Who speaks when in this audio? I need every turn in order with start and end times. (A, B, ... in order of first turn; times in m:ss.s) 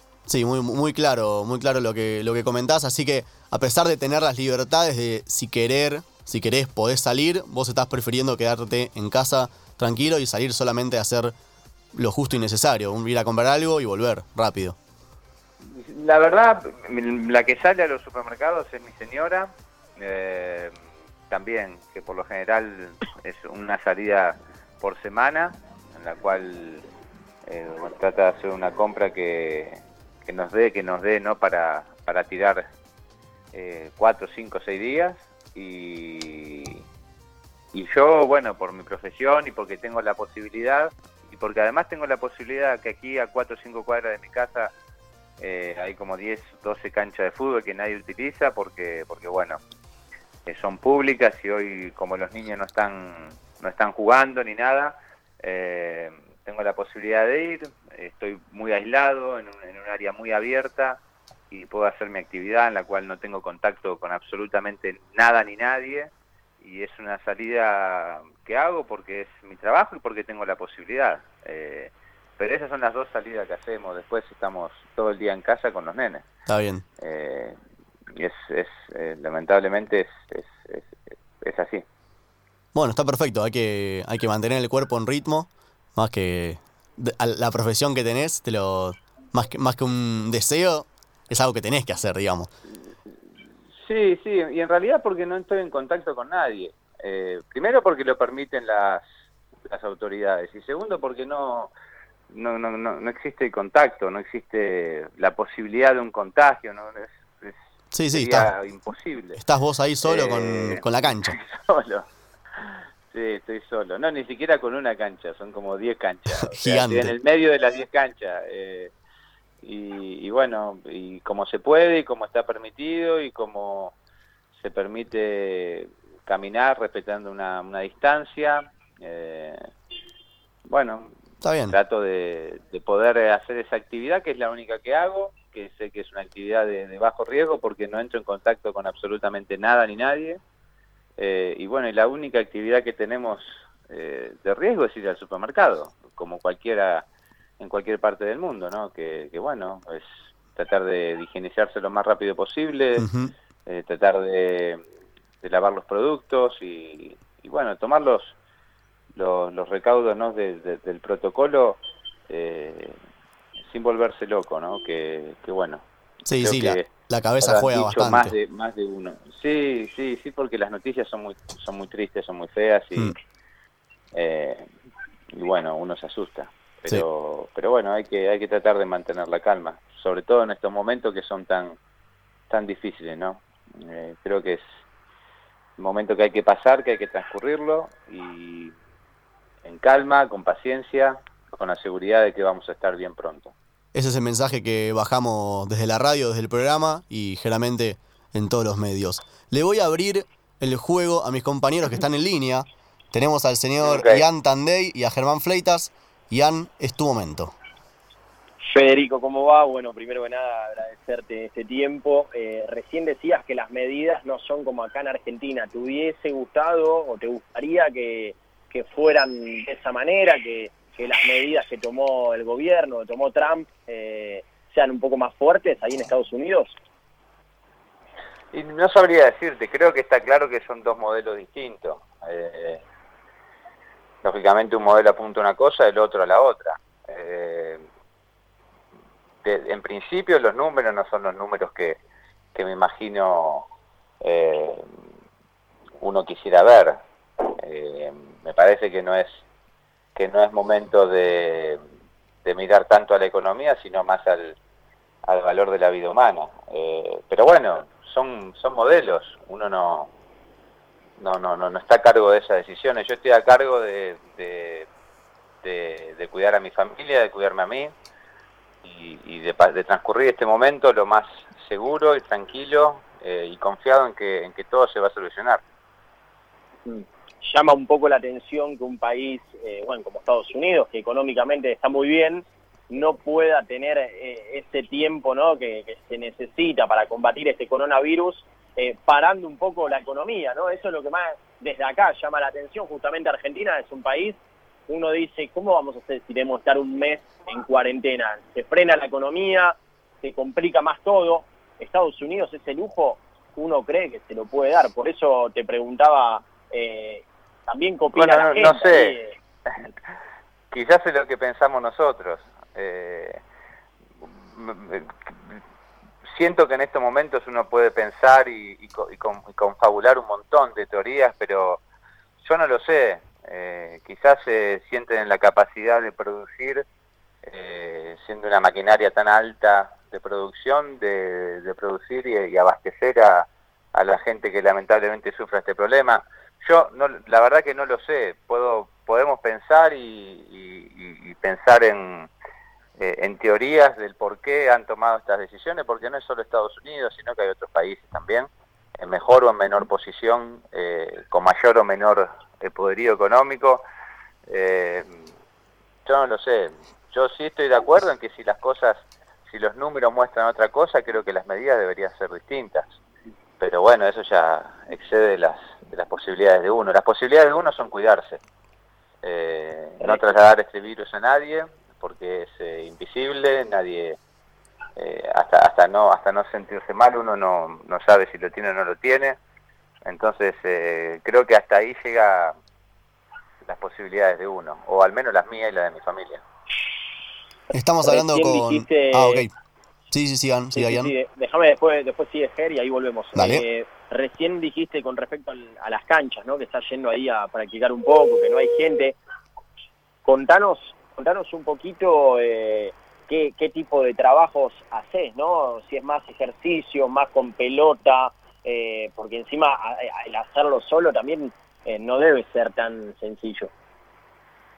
0:00.3-0:11.3 A
0:11.9-0:14.8 A
0:15.7-0:20.7 B
0:21.3-0:26.8 B
0:27.4-0:32.6 B
0:33.5-0:36.8 B
0:37.7-0:44.7 B
0:45.4-0:49.6 B
0:50.4-1:01.0 B
1:01.5-1:16.2 B
1:16.5-1:16.8 A
1:17.0-1:17.6 B
1:18.1-1:21.8 B
1:22.7-1:32.5 A
1:33.8-1:39.0 B
1:39.6-1:41.7 B
1:42.3-1:47.6 B
1:47.9-1:48.5 A
1:48.1-1:49.4 B
1:49.4-1:51.4 A
1:50.0-1:52.0 B
1:52.6-1:58.9 B
1:56.4-1:57.1 A
1:59.6-2:03.9 B
2:04.6-2:09.6 B
2:10.6-2:11.1 B
2:11.4-2:11.8 A
2:11.7-2:20.4 B
2:21.2-2:27.0 B
2:27.6-2:33.1 B
2:33.0-2:33.3 A
2:33.6-2:34.8 B
2:35.4-2:38.3 B
2:39.1-2:43.0 B
2:43.7-2:45.8 B
2:46.3-2:48.3 A
2:46.4-2:53.2 B
2:54.1-2:54.7 B
2:55.3-3:01.8 B
3:02.5-3:04.6 B
3:05.8-3:08.7 B
3:09.6-3:13.5 B
3:13.9-3:27.5 A
3:23.8-3:24.2 B
3:28.6-3:46.8 C
3:48.5-3:52.8 B
3:54.2-3:57.8 B
3:59.4-4:02.0 B
4:02.5-4:03.7 B
4:04.2-4:04.9 B
4:06.0-4:07.0 B
4:07.6-4:09.4 B
4:10.2-4:11.8 B
4:12.4-4:14.6 B
4:15.2-4:20.1 B
4:21.2-4:24.9 B
4:25.6-4:27.9 B
4:28.8-4:35.6 B
4:36.8-5:09.3 C
5:08.1-5:09.2 B
5:10.7-5:13.4 B
5:14.2-5:15.6 B
5:16.3-5:21.8 B
5:22.4-5:26.8 B
5:27.4-5:42.3 B
5:43.0-5:53.8 B
5:54.5-5:55.2 B
5:56.0-6:03.0 B
6:03.6-6:08.4 B
6:09.2-6:14.2 B
6:15.0-6:19.4 B
6:20.0-6:22.5 B
6:23.6-6:26.4 B
6:27.7-6:29.5 A
6:28.0-6:29.5 C
6:30.1-6:31.1 A
6:30.7-6:39.2 C
6:33.3-6:33.6 A
6:40.2-6:53.7 C